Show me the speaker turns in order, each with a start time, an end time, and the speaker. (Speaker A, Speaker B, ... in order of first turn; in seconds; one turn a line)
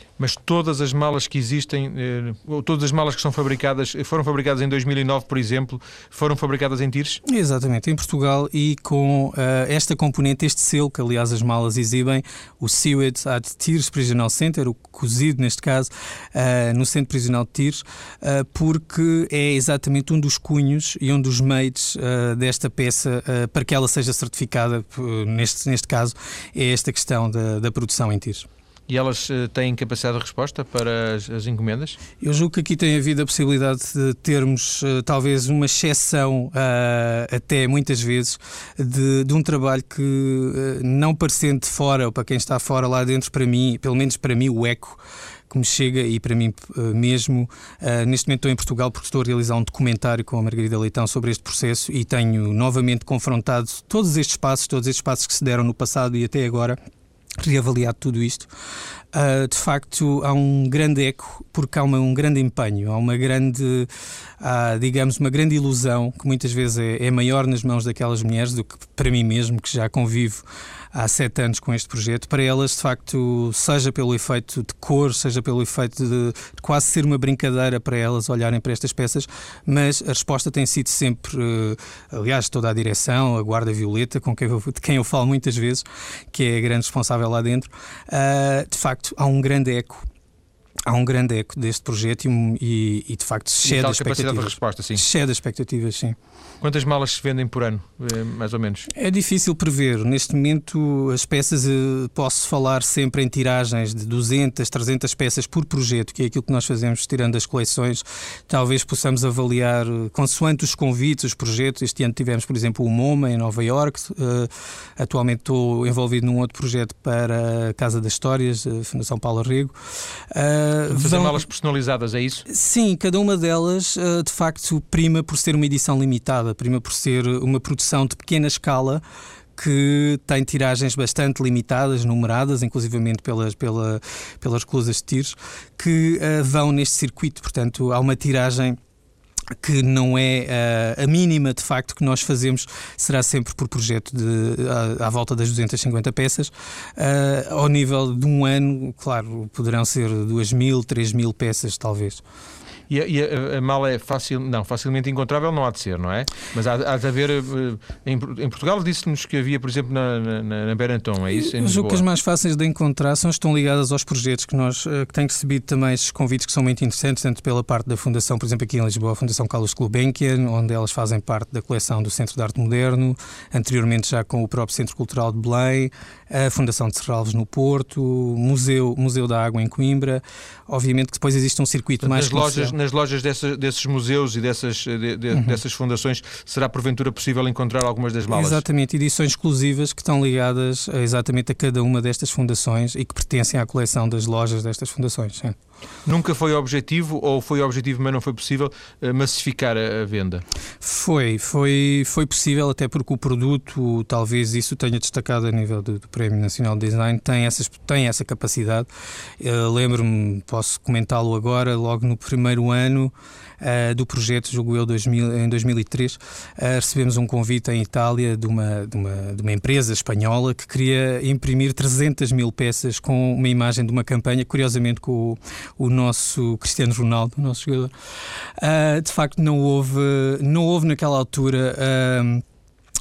Speaker A: 0.2-7.2
Speaker B: 7.2-28.4
Speaker A: 28.9-32.0
Speaker B: 32.2-56.8
Speaker B: 57.4-58.5
Speaker B: 59.1-63.9
Speaker B: 64.4-90.0
Speaker B: 90.8-96.2
Speaker A: 93.6-95.0
Speaker A: 96.6-98.9
Speaker B: 98.9-119.7
Speaker B: 120.3-121.4
Speaker A: 120.9-122.4
Speaker B: 122.5-129.0
Speaker B: 129.6-138.8
Speaker B: 139.6-152.2
Speaker A: 152.9-162.0
Speaker B: 161.3-182.7
Speaker A: 182.0-188.6
Speaker B: 188.3-195.6
Speaker A: 196.0-200.4
Speaker B: 200.8-208.9
Speaker B: 209.4-227.9
Speaker B: 228.6-232.4